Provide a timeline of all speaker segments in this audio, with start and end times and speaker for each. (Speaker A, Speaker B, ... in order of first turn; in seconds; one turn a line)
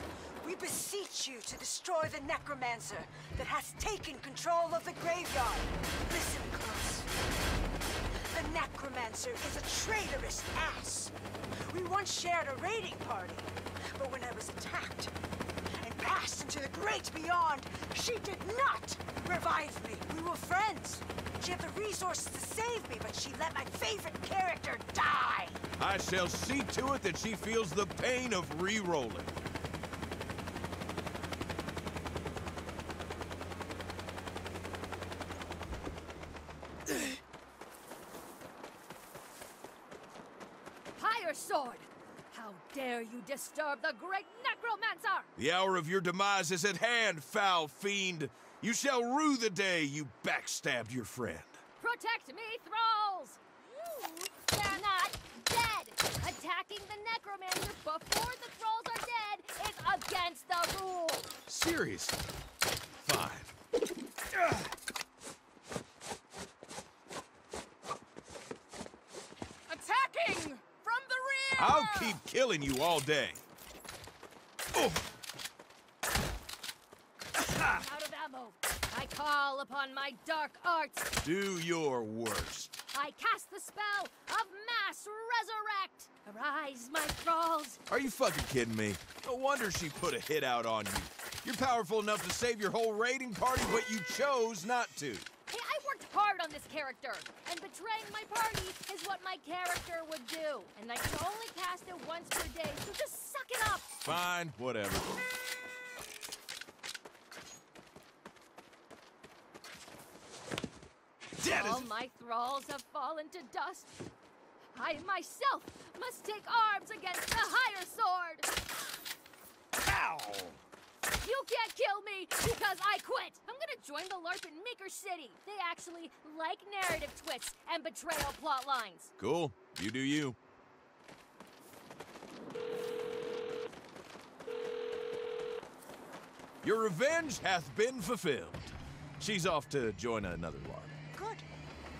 Speaker A: 0.4-7.1
Speaker A: 8.3-11.1
Speaker A: 11.7-15.1
Speaker A: 15.8-25.6
Speaker B: 25.8-29.3
Speaker C: 41.0-45.3
Speaker B: 45.4-51.6
Speaker C: 51.8-53.4
Speaker C: 53.9-61.3
Speaker B: 61.5-62.2
Speaker B: 63.0-63.5
Speaker C: 69.7-72.1
Speaker B: 71.6-73.4
Speaker B: 74.8-75.0
Speaker B: 77.4-77.8
Speaker C: 77.7-81.1
Speaker B: 81.2-82.8
Speaker C: 82.9-87.8
Speaker B: 87.9-95.3
Speaker C: 95.5-103.9
Speaker B: 104.0-105.2
Speaker B: 111.4-111.9
Speaker C: 111.5-114.0
Speaker C: 114.7-118.5
Speaker B: 119.8-120.6
Speaker C: 121.2-129.1
Speaker B: 129.2-130.4
Speaker B: 136.6-140.9
Speaker A: 141.1-141.4